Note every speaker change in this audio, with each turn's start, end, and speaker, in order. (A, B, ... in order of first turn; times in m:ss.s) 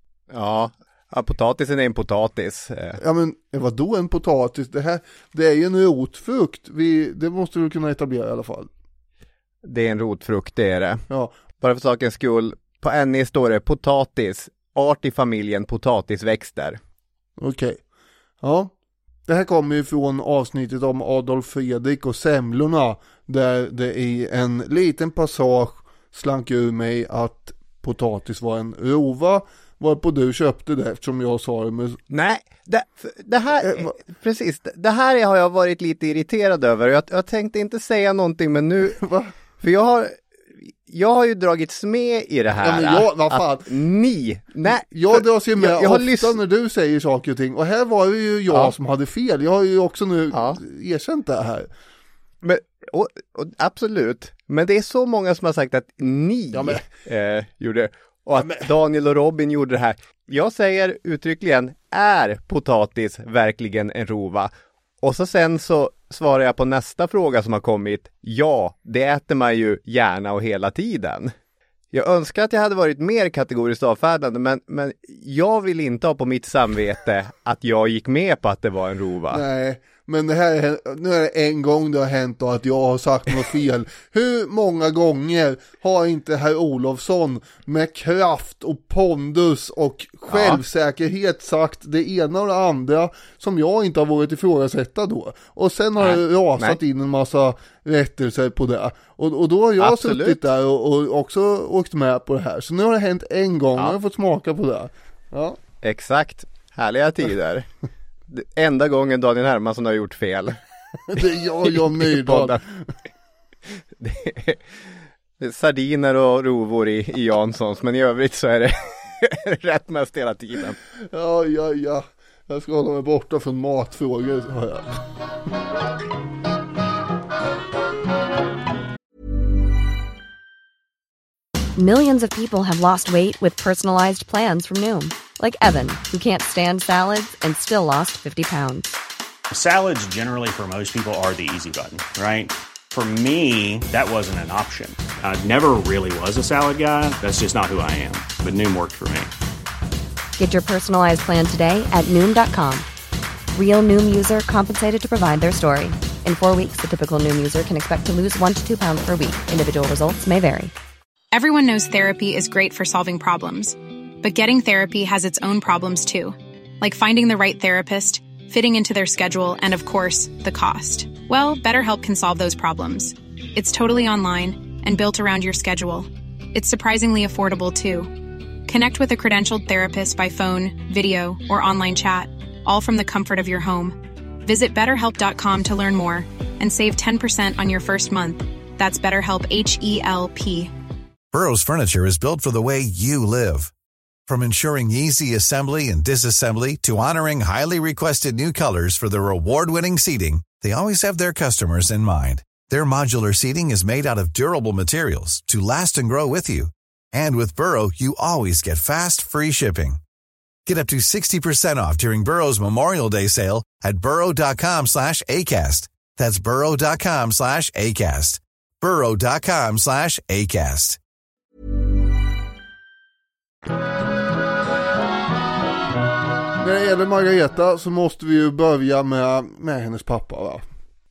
0:00.3-0:03.0 A
0:03.0-0:08.7 B
0:09.6-0:11.0 A
0:11.1-0:11.3 B
0:11.6-0:16.8 A
0:17.4-0:17.8 B
0:18.4-0:18.7 B
0:19.3-0:32.0 B
0:32.1-0:39.0 A
0:33.6-0:34.0 B
0:39.0-0:39.3 B
0:39.6-0:46.4 A
0:42.6-0:43.7 B
0:44.7-0:51.7 B
0:50.3-0:50.6 A
0:52.4-1:04.5 A
0:56.5-0:56.8 B
0:58.4-0:58.6 B
1:05.0-1:11.3 A
1:11.9-1:19.4 A
1:19.3-1:45.6 B
1:30.3-1:30.6 A
1:36.0-1:36.8 A
1:39.8-1:40.4 A
1:45.8-1:47.7 A
1:48.3-1:50.6 A
1:51.1-1:52.9 B
1:51.6-1:52.6 A
1:54.0-1:54.8 A
1:55.4-2:00.8 A
2:01.1-2:04.8 B
2:11.8-2:19.0 C
2:19.5-2:29.3 D
2:30.4-2:32.9 C
2:33.5-2:40.7 C
2:41.3-2:58.1 E
2:58.7-3:10.7 E
3:11.3-3:13.7 F
3:14.3-3:30.0 F
3:30.6-3:41.0 F
3:46.6-3:50.6 B